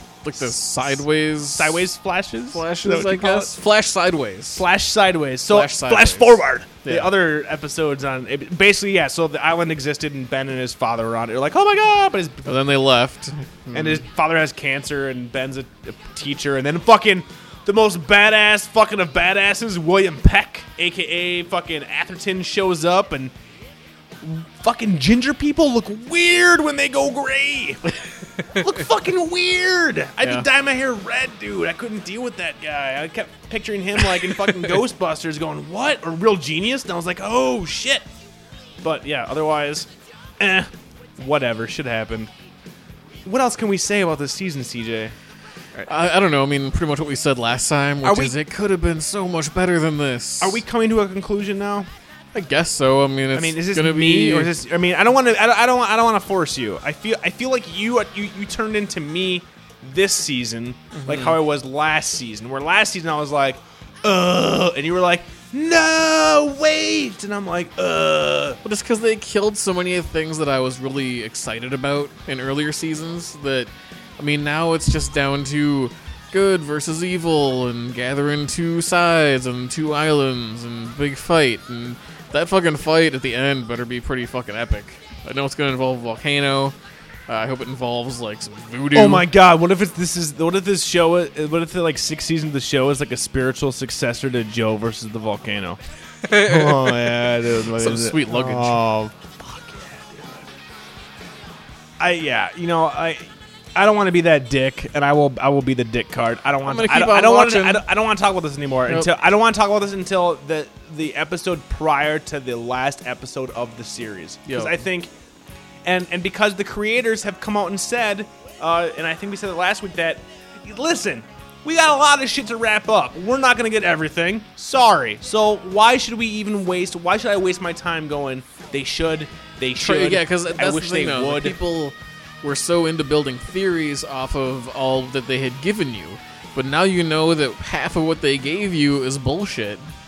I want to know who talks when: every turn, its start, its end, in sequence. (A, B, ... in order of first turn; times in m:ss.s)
0:00.2-0:01.9 A
0:00.4-0:03.6 B
0:02.5-0:04.6 A
0:04.5-0:12.6 B
0:05.5-0:07.1 A
0:12.4-0:14.0 A
0:13.7-0:23.3 B
0:24.2-0:27.8 B
0:28.4-0:38.1 B
0:38.8-0:39.9 B
0:40.4-0:42.3 B
0:43.2-0:45.1 B
0:45.9-0:50.6 A
0:48.0-0:48.4 B
0:50.4-0:51.9 B
0:52.3-0:54.5 A
0:53.3-1:08.6 B
1:00.9-1:01.4 A
1:08.6-1:26.7 A
1:27.3-1:29.3 A
1:28.9-1:40.5 B
1:36.2-1:38.8 A
1:42.0-1:55.1 B
1:46.6-1:47.8 A
1:54.5-1:54.8 A
1:55.8-2:11.6 B
2:09.8-2:19.8 A